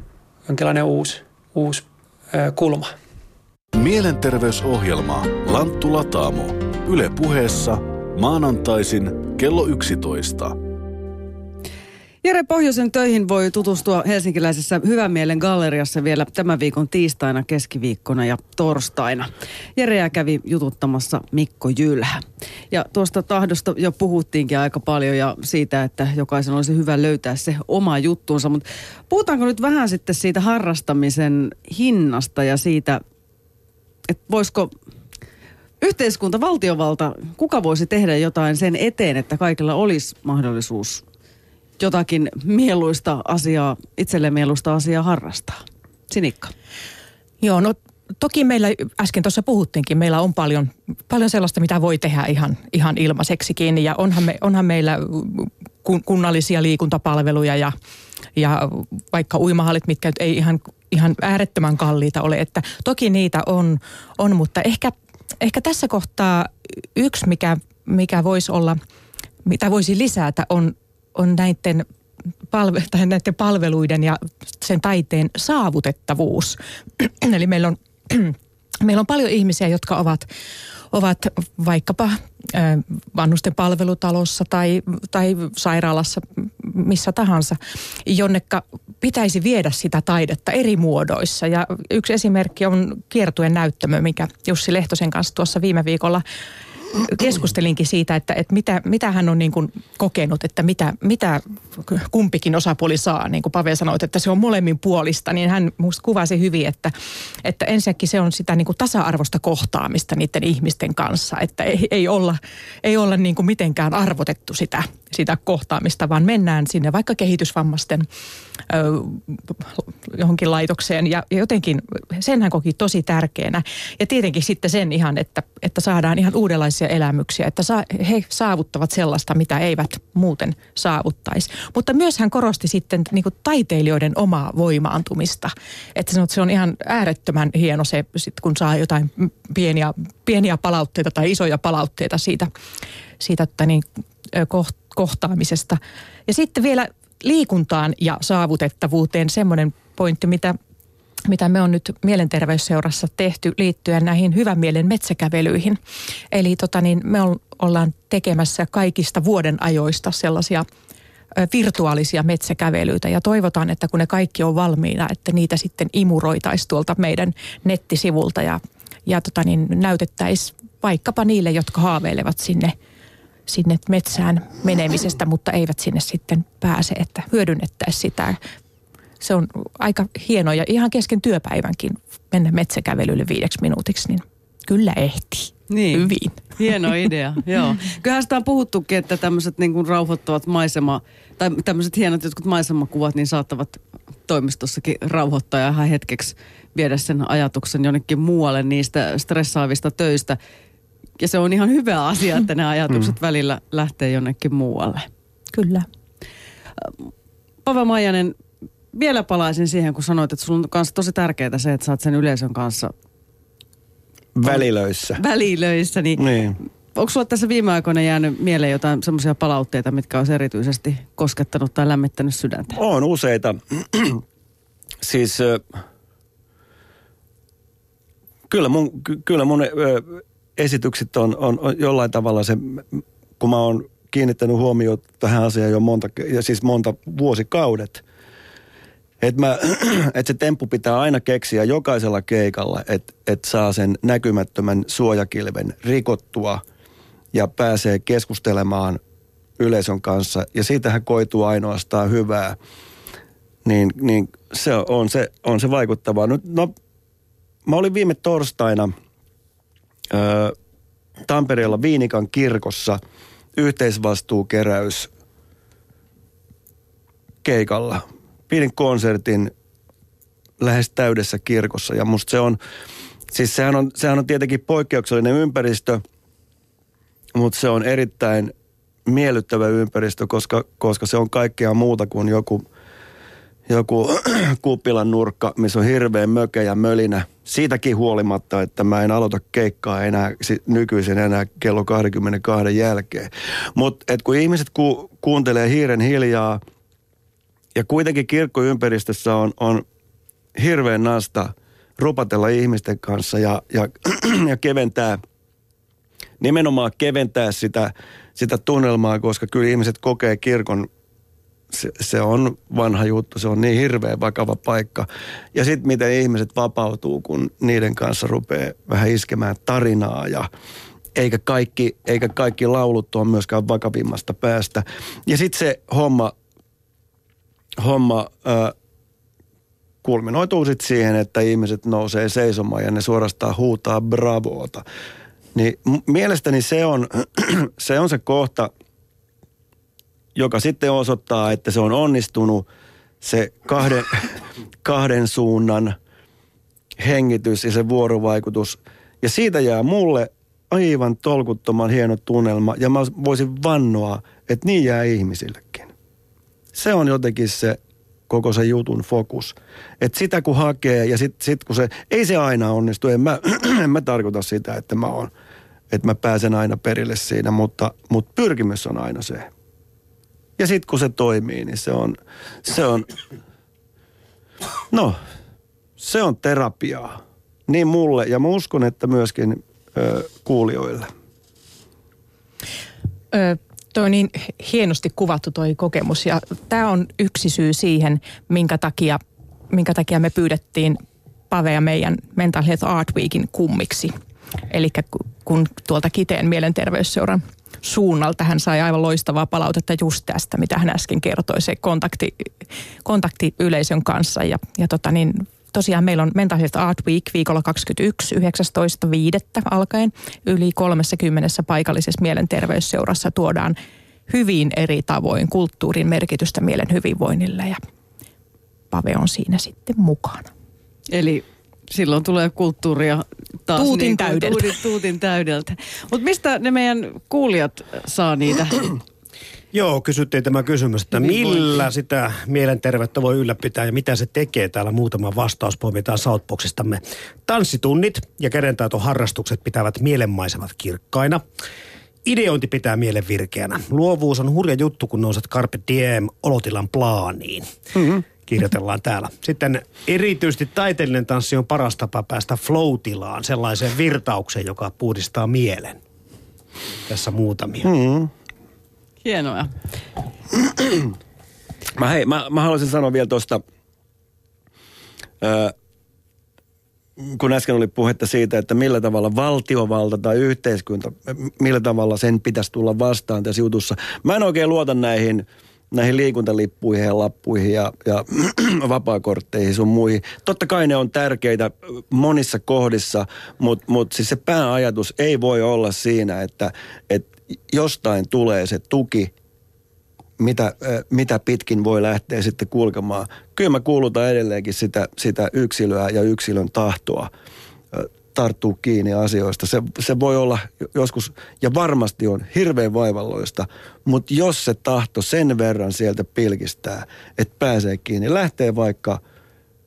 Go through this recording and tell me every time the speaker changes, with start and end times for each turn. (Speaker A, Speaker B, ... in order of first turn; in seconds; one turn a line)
Speaker A: 0.5-2.9
Speaker B: 3.7-10.5
Speaker C: 12.2-33.0
Speaker C: 34.1-34.7
Speaker C: 35.8-41.0
Speaker C: 41.8-46.5
Speaker D: 47.4-57.7
Speaker D: 58.4-68.8
Speaker D: 69.4-71.8
Speaker D: 72.5-80.3
Speaker D: 80.9-96.2
Speaker D: 96.9-106.9
Speaker D: 107.4-118.1
Speaker D: 118.7-142.5
Speaker D: 143.2-150.6
Speaker D: 151.2-155.8
Speaker D: 156.3-160.6
Speaker D: 161.3-172.7
Speaker D: 173.5-178.4
Speaker D: 179.2-186.9
Speaker C: 185.7-200.4
Speaker C: 201.2-205.1
Speaker D: 205.5-205.9
Speaker C: 207.6-208.3
Speaker C: 208.9-212.9
Speaker E: 214.3-215.2
Speaker C: 214.4-216.3
Speaker E: 216.2-216.6
Speaker C: 216.9-222.8
Speaker E: 222.7-224.2
Speaker E: 225.0-225.6
Speaker E: 228.5-238.0
Speaker E: 239.2-246.6
Speaker E: 247.3-249.0
Speaker E: 249.6-252.6
Speaker E: 253.6-256.7
Speaker E: 257.6-258.9
Speaker E: 260.1-260.5
Speaker E: 261.2-263.0
Speaker E: 263.6-265.1
Speaker E: 267.4-269.5
Speaker E: 270.6-272.6
Speaker E: 273.3-276.0
Speaker E: 277.3-278.5
Speaker E: 279.1-282.6
Speaker E: 283.7-296.6
Speaker E: 297.8-299.8
Speaker E: 300.6-305.2
Speaker E: 306.4-310.9
Speaker E: 311.7-320.5
Speaker E: 321.1-326.3
Speaker E: 327.8-328.7
Speaker E: 330.0-334.8
Speaker E: 335.5-338.7
Speaker E: 340.3-342.6
Speaker E: 343.2-345.9
Speaker E: 347.0-355.9
Speaker E: 356.7-357.8
Speaker E: 358.3-365.3
Speaker E: 365.9-369.5
Speaker E: 370.6-373.1
Speaker E: 376.0-377.2
Speaker E: 377.7-381.1
Speaker D: 383.3-391.0
Speaker D: 391.5-394.1
Speaker D: 394.7-402.5
Speaker D: 403.0-413.8
Speaker D: 414.3-417.8
Speaker D: 418.9-420.5
Speaker C: 421.1-428.9
Speaker D: 423.7-424.7
Speaker F: 429.7-441.4
Speaker C: 431.2-431.7
Speaker F: 442.2-447.7
Speaker E: 447.9-448.2
Speaker F: 448.4-456.0
Speaker F: 457.1-457.9
Speaker E: 457.8-458.3
Speaker C: 459.2-459.7
Speaker E: 461.9-463.6
Speaker E: 465.4-465.7
Speaker E: 467.2-489.3
Speaker E: 490.4-497.3
Speaker E: 497.9-509.2